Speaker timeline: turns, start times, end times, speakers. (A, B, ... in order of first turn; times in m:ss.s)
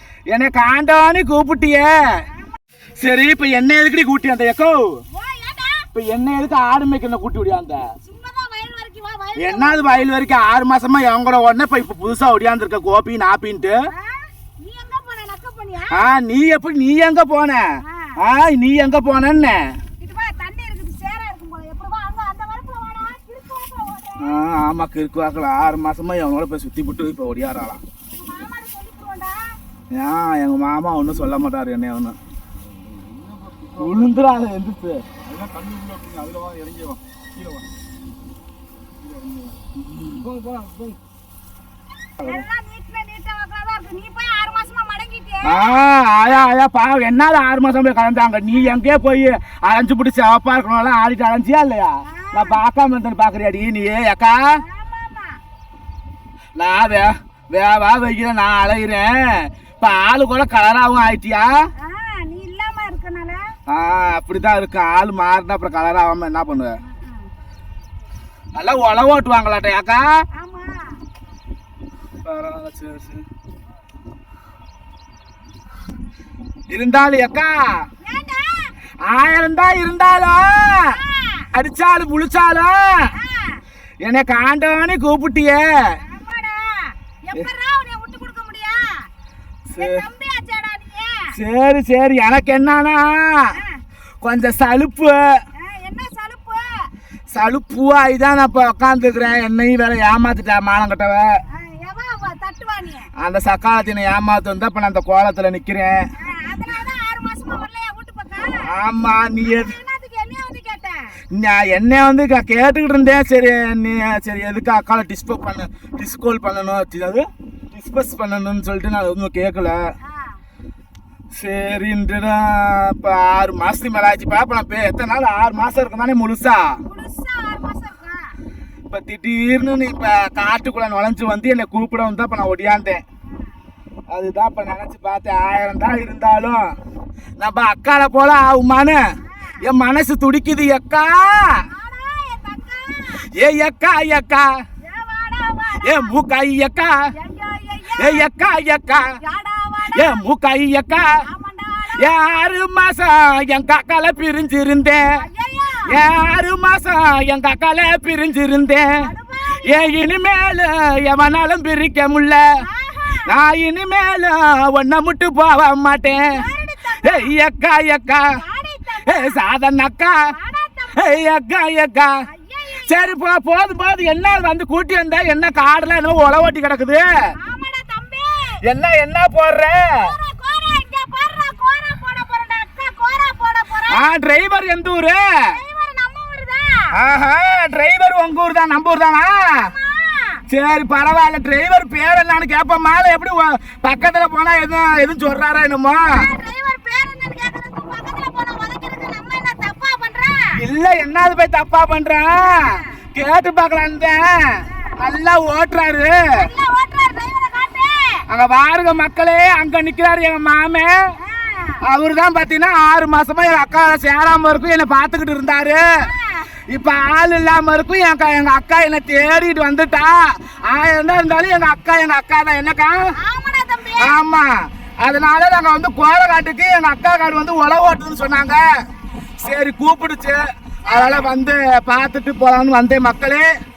0:00.3-0:02.2 A
0:03.0-0:05.0 A
0:05.1-0:05.9 B
0:05.9-0:07.8 A
0:08.0-0:10.1 B
0:09.4-0:13.8 A
0:13.9-0:16.0 B
0:15.9-0:19.8 A
0:17.8-0:18.2 B
0:20.0-0:24.4 B
0:24.2-0:27.8 A
0:28.1-0:29.6 B
0:29.9-0:32.2 A
0:32.9-0:34.0 C
0:33.8-0:35.1 A
0:35.2-0:37.6 C
0:39.0-0:39.6 C
0:40.3-0:40.9 C
0:42.2-0:45.8 B
0:45.4-0:54.4 A
0:52.0-0:52.6 B
0:54.6-0:55.4 B
0:56.6-1:01.5 A
1:01.8-1:03.4 B
1:03.7-1:06.7 A
1:06.8-1:07.3 B
1:08.6-1:10.2 A
1:10.4-1:11.0 B
1:12.2-1:13.2 A
1:16.7-1:17.8 A
1:18.0-1:18.7 B
1:19.0-1:21.0 A
1:20.9-1:21.5 B
1:21.5-1:23.1 A
1:23.1-1:23.6 B
1:24.0-1:26.0 A
1:26.0-1:29.1 B
1:29.7-1:30.0 A
1:29.8-1:31.3 B
1:31.3-1:33.5 A
1:33.5-1:33.8 B
1:34.2-1:35.4 A
1:35.6-1:36.9 B
1:37.3-1:41.4 A
1:41.5-1:43.1 B
1:43.2-1:46.0 A
1:46.2-1:48.7 B
1:48.6-1:49.7 A
1:49.4-1:51.1 B
1:51.3-1:59.8 A
2:00.0-2:00.4 B
2:01.3-2:06.8 A
2:06.8-2:08.3 B
2:08.9-2:13.0 A
2:14.1-2:16.8 A
2:17.4-2:19.0 A
2:19.6-2:21.6 A
2:21.7-2:23.2 B
2:23.3-2:24.5 A
2:24.8-2:26.1 B
2:25.8-2:26.9 A
2:27.2-2:28.3 B
2:28.0-2:29.0 A
2:29.2-2:30.2 B
2:29.9-2:31.1 A
2:31.2-2:32.4 B
2:32.0-2:35.0 A
2:35.2-2:35.9 B
2:35.9-2:38.9 A
2:39.0-2:39.9 B
2:39.6-2:42.4 A
2:42.6-2:43.3 B
2:43.2-2:46.3 A
2:46.3-2:47.3 B
2:47.0-2:48.2 A
2:48.3-2:49.4 B
2:49.1-2:50.2 A
2:50.3-2:51.2 B
2:51.0-2:52.1 A
2:52.3-2:53.1 B
2:52.8-2:57.0 A
2:57.4-2:58.5 B
2:58.6-3:00.1 A
3:00.0-3:04.1 B
3:03.9-3:05.5 A
3:05.5-3:06.9 B
3:06.9-3:09.7 A
3:09.5-3:10.4 B
3:10.5-3:16.1 A
3:16.1-3:20.6 B
3:20.6-3:26.2 A
3:22.4-3:22.9 B
3:26.4-3:28.2 B
3:28.3-3:30.9 A
3:31.2-3:31.8 B
3:31.8-3:35.8 A
3:36.0-3:36.5 B
3:36.7-3:42.9 A
3:43.2-3:44.2 B
3:44.0-3:48.6 A
3:49.4-3:53.5 A
3:50.8-3:51.3 B